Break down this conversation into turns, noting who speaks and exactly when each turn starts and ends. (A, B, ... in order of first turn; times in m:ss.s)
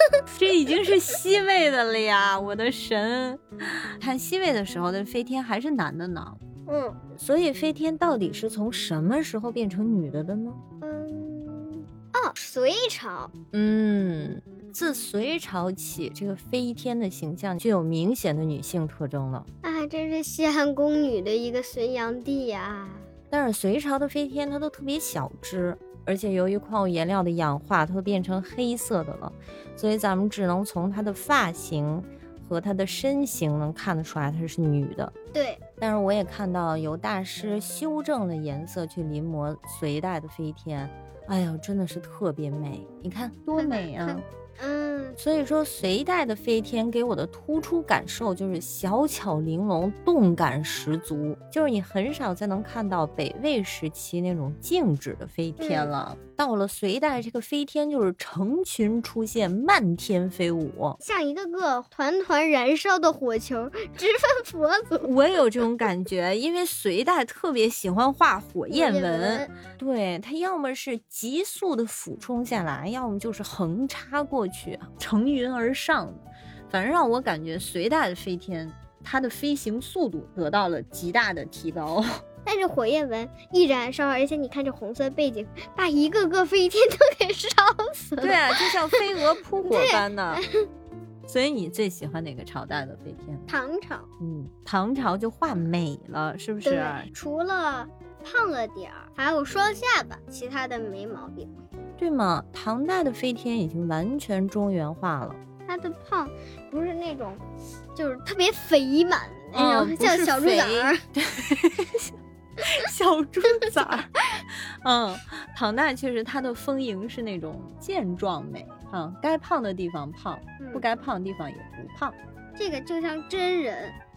0:00.3-0:06.4 A
0:06.7-0:07.0 B
0:07.1-0:10.6 A
0:10.8-0:13.3 B
0:13.5-0:19.5 A
0:19.6-0:23.1 B
0:23.3-0:35.1 A
0:35.3-0:35.6 B
0:35.8-0:44.2 A
0:43.5-0:45.2 B
0:45.2-1:01.0 A
0:55.6-0:55.9 B
1:01.0-1:05.1 B
1:05.0-1:22.2 A
1:08.7-1:09.5 B
1:22.4-1:29.0 B
1:28.2-1:30.4 A
1:29.6-1:30.6 B
1:31.2-1:33.5 A
1:33.5-1:34.1 B
1:34.2-1:37.1 A
1:36.6-1:41.5 B
1:42.0-1:45.4 A
1:45.6-1:47.4 B
1:48.0-1:51.0 B
1:49.5-2:02.2 A
2:00.6-2:00.8 B
2:02.6-2:04.0 B